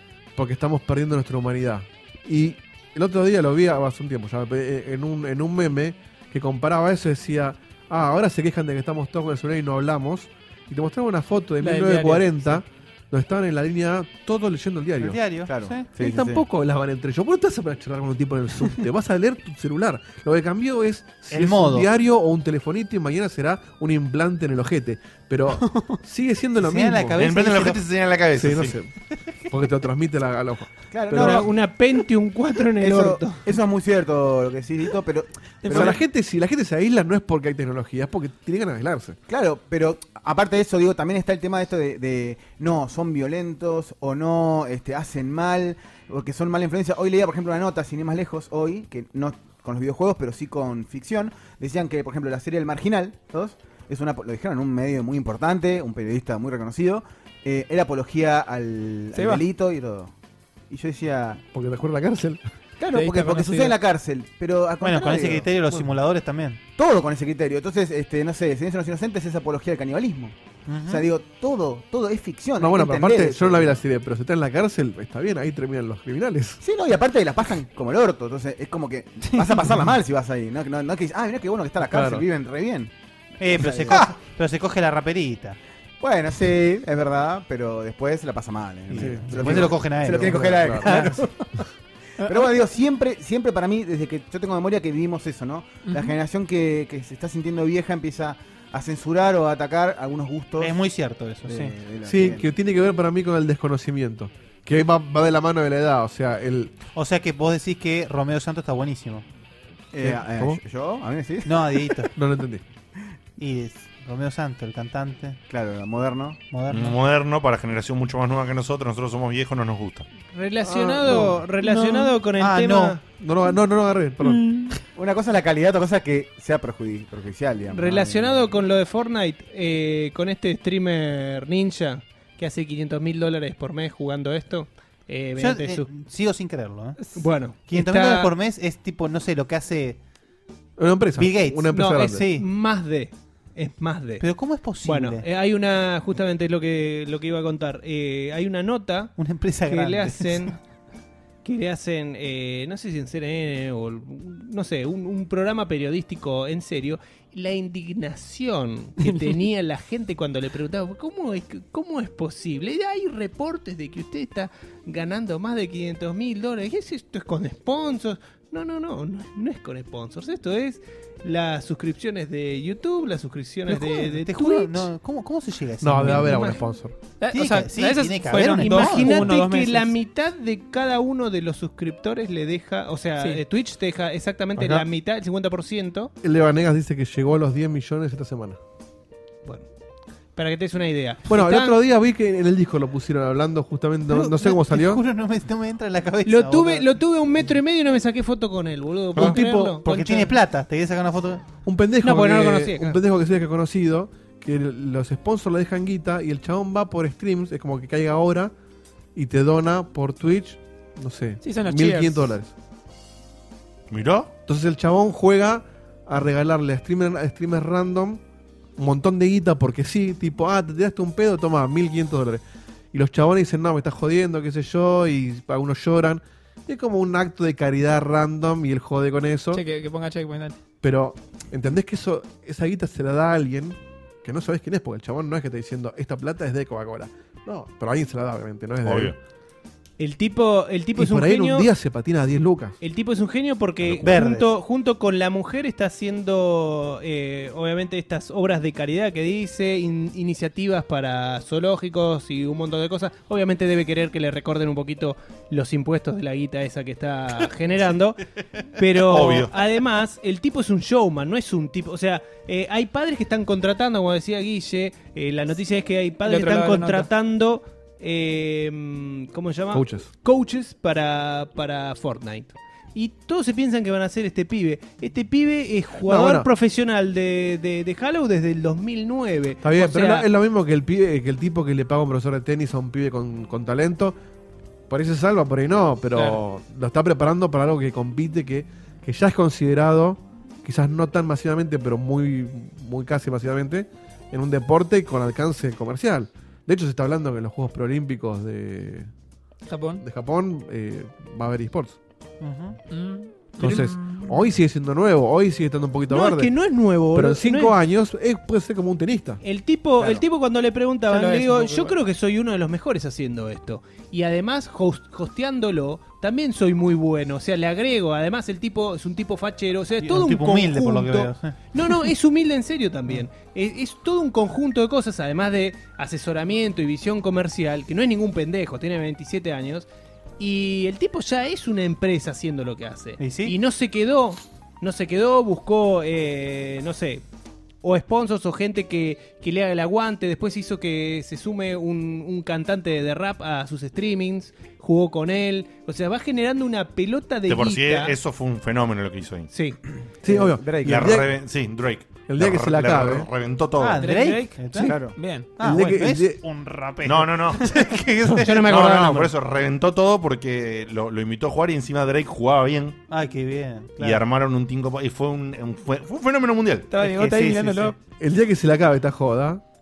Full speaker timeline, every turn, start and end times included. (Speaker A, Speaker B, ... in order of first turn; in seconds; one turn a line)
Speaker A: 0.4-15.2
Speaker B: 11.6-12.6
Speaker C: 15.0-15.9
Speaker D: 15.5-16.4
Speaker A: 16.0-27.2
Speaker C: 21.3-21.9
Speaker B: 25.6-26.0
Speaker C: 26.6-27.8
Speaker E: 27.2-28.8
Speaker A: 28.3-28.9
Speaker A: 29.5-31.5
Speaker D: 30.9-31.6
Speaker F: 31.2-33.4
Speaker D: 32.8-36.0
Speaker B: 35.6-35.9
Speaker A: 35.7-39.2
Speaker D: 39.3-60.1
Speaker B: 59.1-59.4
Speaker D: 60.7-61.4
Speaker A: 61.5-62.4
Speaker D: 62.8-65.5
Speaker B: 62.9-63.8
Speaker C: 64.8-66.6
Speaker D: 66.8-70.3
Speaker C: 70.7-71.1
Speaker D: 70.9-73.8
Speaker A: 72.6-76.6
Speaker D: 76.6-82.9
Speaker A: 81.9-82.2
Speaker C: 83.4-85.6
Speaker D: 83.5-84.0
Speaker D: 86.0-91.3
Speaker C: 88.9-91.0
Speaker A: 89.0-91.1
Speaker D: 92.2-100.8
Speaker B: 95.8-96.2
Speaker C: 100.6-101.8
Speaker D: 101.5-102.5
Speaker A: 102.0-106.7
Speaker C: 107.0-109.2
Speaker D: 109.9-112.0
Speaker A: 110.0-110.6
Speaker C: 111.5-112.1
Speaker A: 112.1-112.6
Speaker C: 113.4-115.4
Speaker D: 115.5-116.4
Speaker C: 116.5-117.0
Speaker E: 116.7-120.1
Speaker F: 120.3-123.0
Speaker A: 120.6-121.5
Speaker B: 121.6-122.1
Speaker C: 122.4-123.0
Speaker A: 123.1-124.5
Speaker D: 124.9-128.5
Speaker F: 127.7-135.9
Speaker C: 135.4-137.0
Speaker F: 137.2-138.3
Speaker C: 137.7-140.0
Speaker A: 140.8-142.3
Speaker C: 141.2-142.4
Speaker F: 141.7-149.1
Speaker C: 144.2-145.2
Speaker C: 149.2-150.5
Speaker F: 149.7-150.6
Speaker F: 151.4-174.9
Speaker B: 159.0-159.4
Speaker C: 173.7-176.6
Speaker A: 175.8-177.0
Speaker F: 176.1-176.6
Speaker B: 177.2-179.9
Speaker C: 177.3-179.3
Speaker F: 178.6-186.1
Speaker A: 186.2-188.6
Speaker F: 190.4-191.8
Speaker A: 191.3-195.0
Speaker C: 194.1-196.9
Speaker F: 196.2-200.4
Speaker A: 199.2-199.8
Speaker C: 199.2-201.4
Speaker A: 201.7-208.5
Speaker F: 202.0-203.0
Speaker A: 209.2-212.5
Speaker B: 211.4-212.2
Speaker E: 213.9-214.3
Speaker A: 214.5-218.2
Speaker A: 218.8-229.6
Speaker B: 229.5-230.6
Speaker A: 230.8-239.2
Speaker E: 238.8-239.2
Speaker F: 240.0-241.7
Speaker A: 241.0-242.8
Speaker F: 242.8-258.2
Speaker E: 243.8-244.2
Speaker C: 244.0-244.5
Speaker F: 258.8-280.3
Speaker E: 258.9-259.5
Speaker B: 266.2-267.1
Speaker A: 269.7-270.1
Speaker A: 276.1-276.5
Speaker A: 279.6-284.2
Speaker A: 284.9-299.1
Speaker B: 286.1-286.4
Speaker B: 299.7-300.0
Speaker A: 300.0-302.0
Speaker C: 302.4-302.8
Speaker B: 302.9-304.3
Speaker A: 303.6-309.4
Speaker F: 306.1-307.8
Speaker F: 309.4-329.9
Speaker B: 311.1-312.0
Speaker C: 320.0-321.6
Speaker F: 330.4-337.2
Speaker C: 333.2-333.6
Speaker F: 337.8-348.1
Speaker E: 347.5-349.5
Speaker F: 349.5-349.8
Speaker D: 350.2-351.2
Speaker A: 350.2-351.4
Speaker E: 350.9-354.1
Speaker A: 352.3-353.3
Speaker C: 353.8-358.8
Speaker B: 354.0-356.0
Speaker D: 354.8-355.1
Speaker A: 355.6-356.4
Speaker E: 357.1-357.7
Speaker F: 358.4-359.3
Speaker E: 358.6-363.0
Speaker C: 363.1-364.2
Speaker E: 364.0-366.9
Speaker B: 366.9-367.9
Speaker C: 367.0-367.9
Speaker A: 368.2-369.6